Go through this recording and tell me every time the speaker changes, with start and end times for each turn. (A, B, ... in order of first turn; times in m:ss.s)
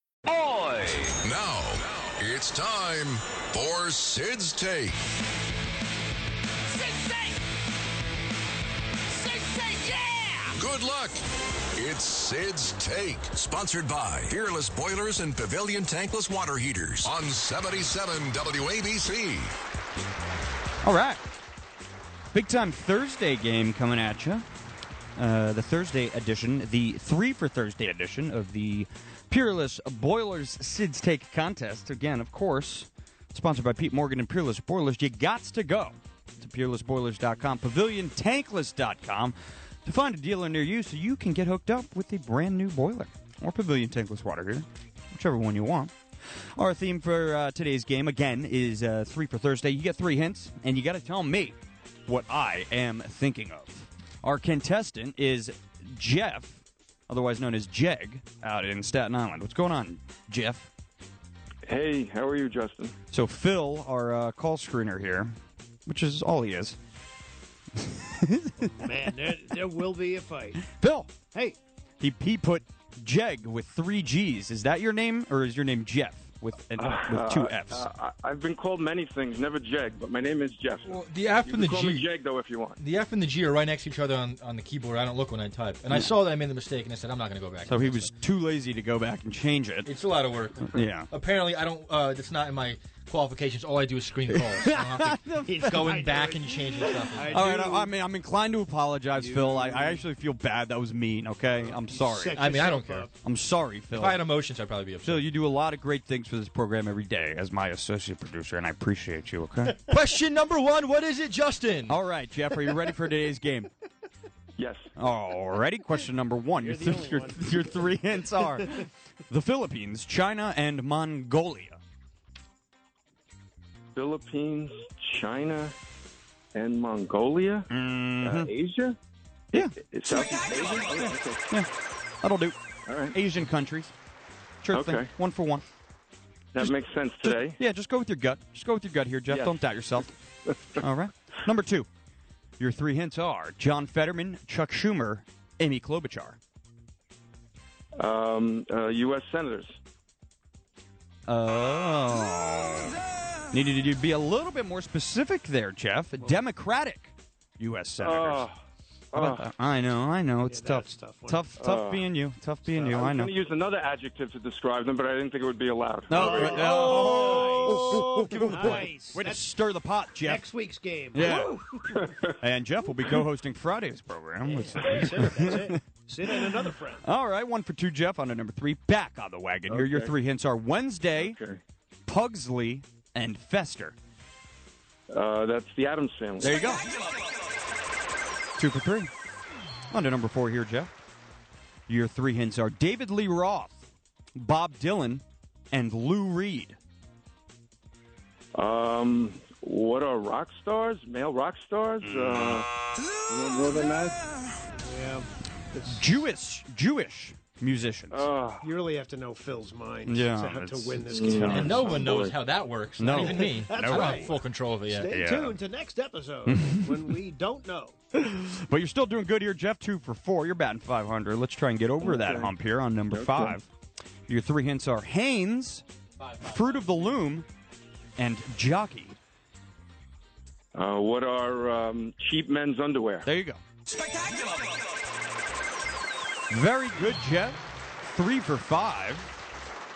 0:00.3-0:05.0 A
0:09.3-0:11.2 A
0:11.8-0:19.5 A
0:20.8-0:21.2 B
0:22.3-0:24.4 B
0:25.2-0:45.9 B
0:46.6-1:00.7 B
1:01.7-1:02.9 C
1:03.1-1:05.4 B
1:05.9-1:06.8 B
1:07.8-1:08.7 B
1:08.6-1:10.7 D
1:10.8-1:11.1 B
1:11.3-1:11.6 D
1:12.0-1:17.8 B
1:16.8-1:22.8 C
1:20.8-1:22.1 E
1:22.8-1:28.1 E
1:25.9-1:26.2 B
1:27.7-1:29.9 B
1:29.8-1:37.4 E
1:30.7-1:31.1 B
1:34.5-1:36.0 B
1:35.4-1:37.9 D
1:37.2-1:42.5 B
1:39.1-1:40.0 D
1:41.5-1:43.2 D
1:42.3-1:43.1 E
1:43.2-1:44.3 B
1:43.9-1:45.3 E
1:45.0-1:49.8 B
1:49.7-1:52.0 E
1:51.9-1:53.7 B
1:54.6-1:54.8 C
1:55.0-2:01.8 B
1:56.5-1:58.8 D
2:04.0-2:05.8 C
2:06.6-2:07.7 C
2:07.7-2:08.5 B
2:08.2-2:09.0 C
2:09.5-2:10.2 B
2:09.8-2:11.4 C
2:10.9-2:11.7 B
2:12.2-2:13.9 B
2:12.9-2:13.2 C
2:14.6-2:15.6 B
2:14.7-2:15.1 C
2:16.6-2:17.6 C
2:17.2-2:20.1 B
2:20.8-2:21.9 B
2:22.6-2:26.4 B
2:28.0-2:29.8 C
2:31.3-2:33.0 B
2:33.5-2:38.4 B
2:38.0-2:38.6 C
2:39.1-2:39.4 C
2:39.2-2:43.3 B
2:40.4-2:41.7 D
2:41.6-2:42.0 C
2:42.8-2:47.0 C
2:46.1-2:50.5 B
2:46.2-2:49.6 D
2:50.2-2:52.2 D
2:51.1-2:51.6 B
2:52.4-2:55.8 B
2:54.5-2:57.0 D
2:57.0-3:01.4 B
2:59.7-3:00.1 C
3:01.2-3:01.6 C
3:02.1-3:04.0 B
3:05.1-3:06.6 C
3:06.4-3:06.8 B
3:08.6-3:09.1 B
3:09.9-3:10.9 B
3:11.9-3:16.8 B
3:18.6-3:22.7 C
3:22.1-3:22.6 B
3:23.4-3:24.0 C
3:24.8-3:26.0 D
3:25.9-3:28.2 B
3:28.1-3:28.7 C
3:28.6-3:32.2 D
3:30.1-3:31.9 B
3:31.1-3:32.4 C
3:31.5-3:35.1 E
3:33.0-3:34.3 B
3:33.2-3:34.4 D
3:35.0-3:38.0 D
3:35.1-3:35.6 B
3:36.5-3:37.0 B
3:38.1-3:43.7 B
3:42.0-3:42.5 C
3:43.1-3:43.6 C
3:44.3-3:45.8 B
3:46.4-3:47.5 B
3:48.2-3:49.2 B
3:50.8-3:53.3 C
3:53.2-3:53.6 B
3:56.5-3:59.3 B